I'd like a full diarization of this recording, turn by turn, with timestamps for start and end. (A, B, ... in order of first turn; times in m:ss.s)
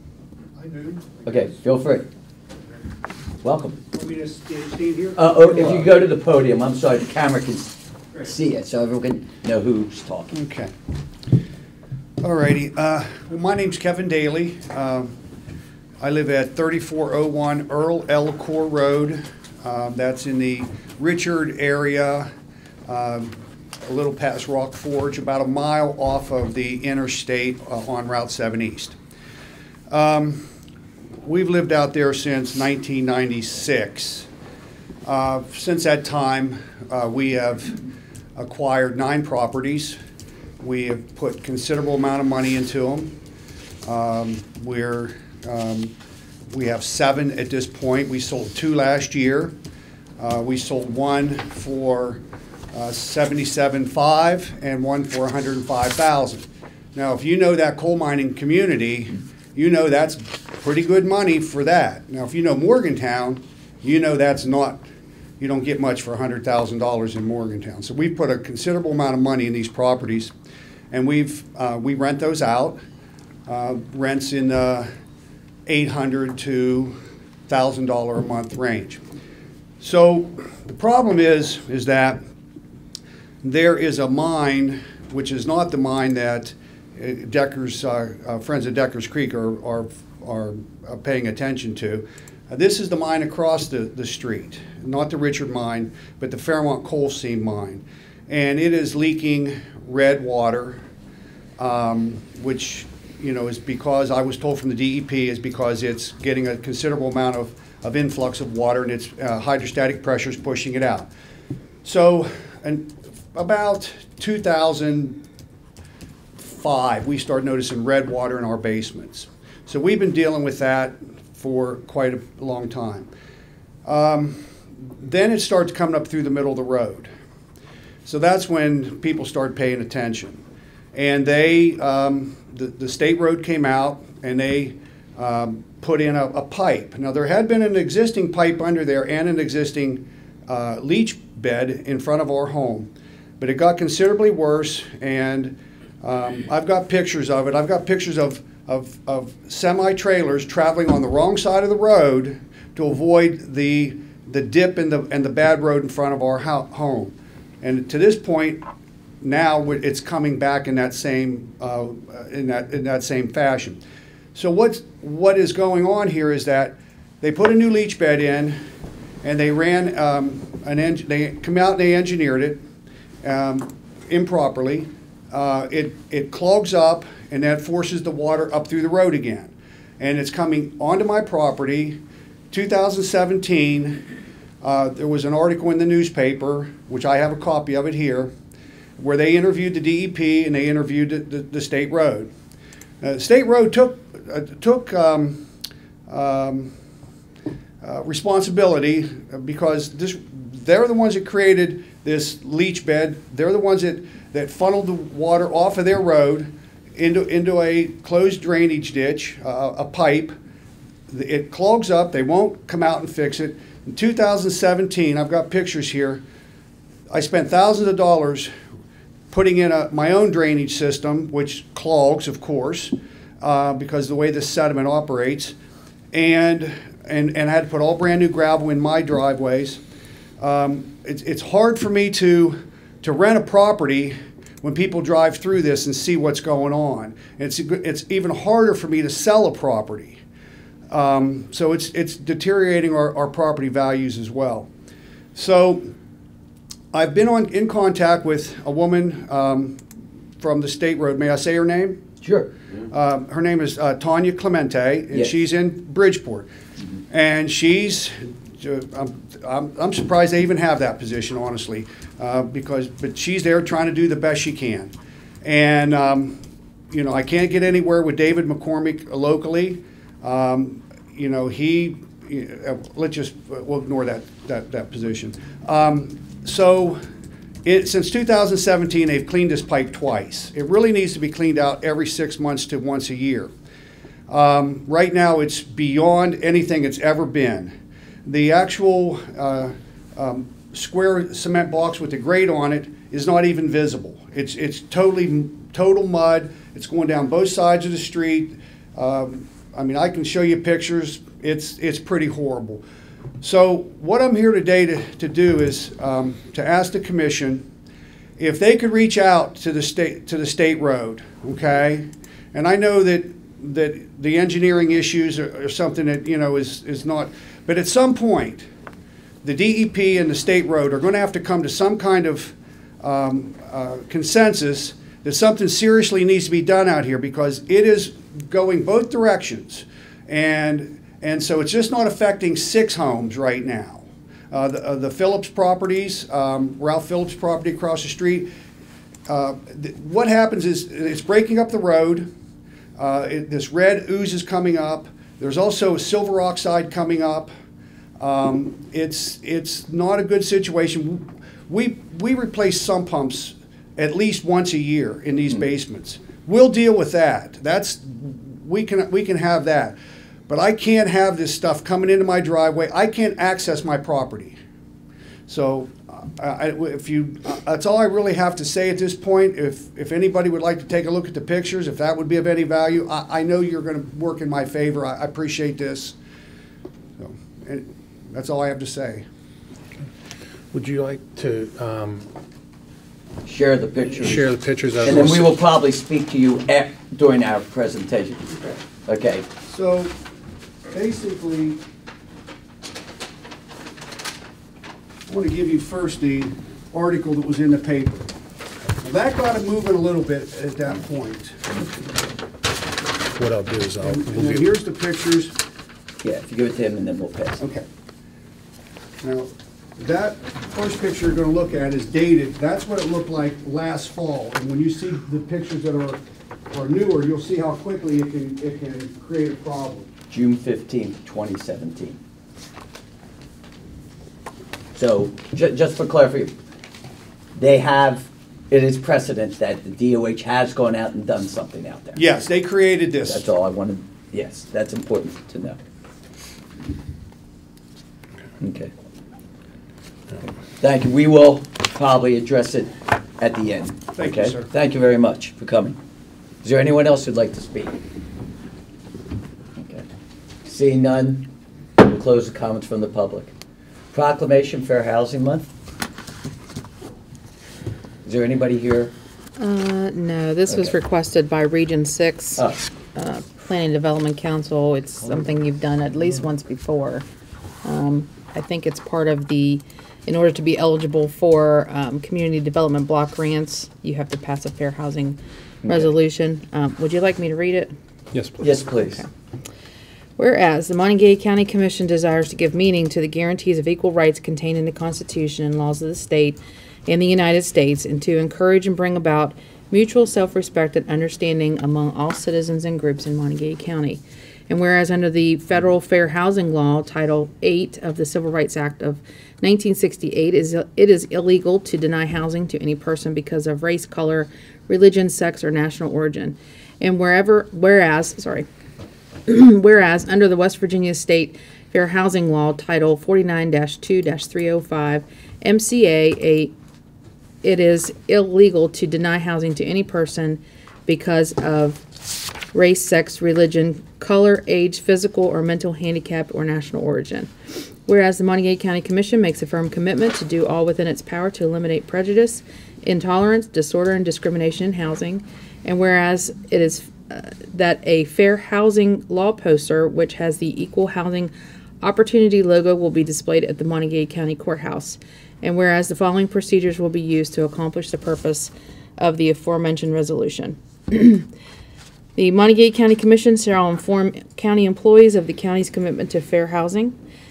0:00.6-0:01.6 A
0:01.2-0:02.1 B
0:03.4-0:03.8 B
0:03.9-0:05.9 A
0:05.2-0:10.4 B
0:10.3-0:10.7 A
0:12.2-0:15.1 A
0:16.0-0:22.3 A
0:22.8-0:29.0 A
0:29.9-0:30.4 A
0:31.2-0:34.3 A
0:35.0-0:37.8 A
0:38.4-0:40.0 A
0:40.6-0:43.2 A
0:43.8-0:45.9 A
0:46.5-0:49.5 A
0:50.2-0:52.2 A
0:52.7-1:04.8 A
1:05.4-1:10.3 A
1:10.9-1:12.8 A
1:13.5-1:14.9 A
1:15.6-1:19.0 A
1:19.8-1:22.2 A
1:23.4-1:40.8 A
1:41.6-1:51.1 A
1:51.8-1:55.2 A
1:56.4-2:03.1 A
2:03.8-2:04.5 A
2:05.0-2:07.1 A
2:08.0-2:10.4 A
2:10.9-2:38.6 A
2:39.2-2:43.8 A
2:44.3-2:48.6 A
2:49.2-2:52.6 A
2:53.2-3:02.0 A
3:02.5-3:04.0 A
3:04.6-3:08.3 A
3:09.0-3:12.3 A
3:13.0-3:15.5 A
3:16.1-3:16.7 A
3:17.8-3:30.4 A
3:31.1-3:36.2 A
3:37.1-3:38.5 A
3:39.3-3:45.5 A
3:46.1-3:49.8 A
3:50.4-4:00.2 A
4:00.9-4:04.7 A
4:05.3-4:05.9 A
4:06.9-4:09.8 A
4:10.4-4:12.0 A
4:12.2-4:12.5 B
4:12.9-4:16.5 A
4:17.1-4:24.9 A
4:25.4-4:26.4 A
4:26.9-4:37.0 A
4:37.6-4:43.5 A
4:44.3-4:47.7 A
4:48.2-5:02.8 A
5:03.4-5:07.6 A
5:08.4-5:18.6 A
5:19.4-5:38.5 A
5:39.3-5:42.3 A
5:43.0-5:47.5 A
5:48.2-6:00.0 A
6:00.5-6:04.6 A
6:05.5-6:16.2 A
6:17.2-6:19.2 A
6:20.7-6:22.3 C
6:23.4-6:28.5 B
6:24.2-6:25.5 C
6:29.0-6:29.4 B
6:29.7-6:30.1 A
6:30.9-6:31.8 A
6:35.3-6:38.3 A
6:39.0-6:42.1 A
6:43.3-6:44.7 C
6:44.0-6:45.5 A
6:46.2-6:47.6 B
6:47.6-6:47.8 A
6:49.2-6:56.2 A
6:56.7-7:00.1 A
7:00.3-7:02.2 B
7:04.9-7:06.5 B
7:07.5-7:12.2 B
7:12.2-7:13.4 A
7:13.2-7:15.8 B
7:18.6-7:18.9 B
7:20.8-7:26.0 B
7:24.2-7:24.7 A
7:26.6-7:28.0 B
7:29.8-7:30.0 B
7:30.6-7:33.5 B
7:34.1-7:35.7 B
7:38.2-7:39.1 B
7:39.6-7:42.6 D
7:43.1-7:47.2 D
7:47.8-7:57.9 D
7:55.8-7:56.1 B
7:58.3-7:58.6 C
7:58.6-7:59.2 B
8:00.4-8:28.6 D
8:29.5-8:36.7 D
8:37.6-8:42.0 D
8:42.7-8:47.5 D
8:48.0-9:11.5 D
9:12.4-9:17.2 D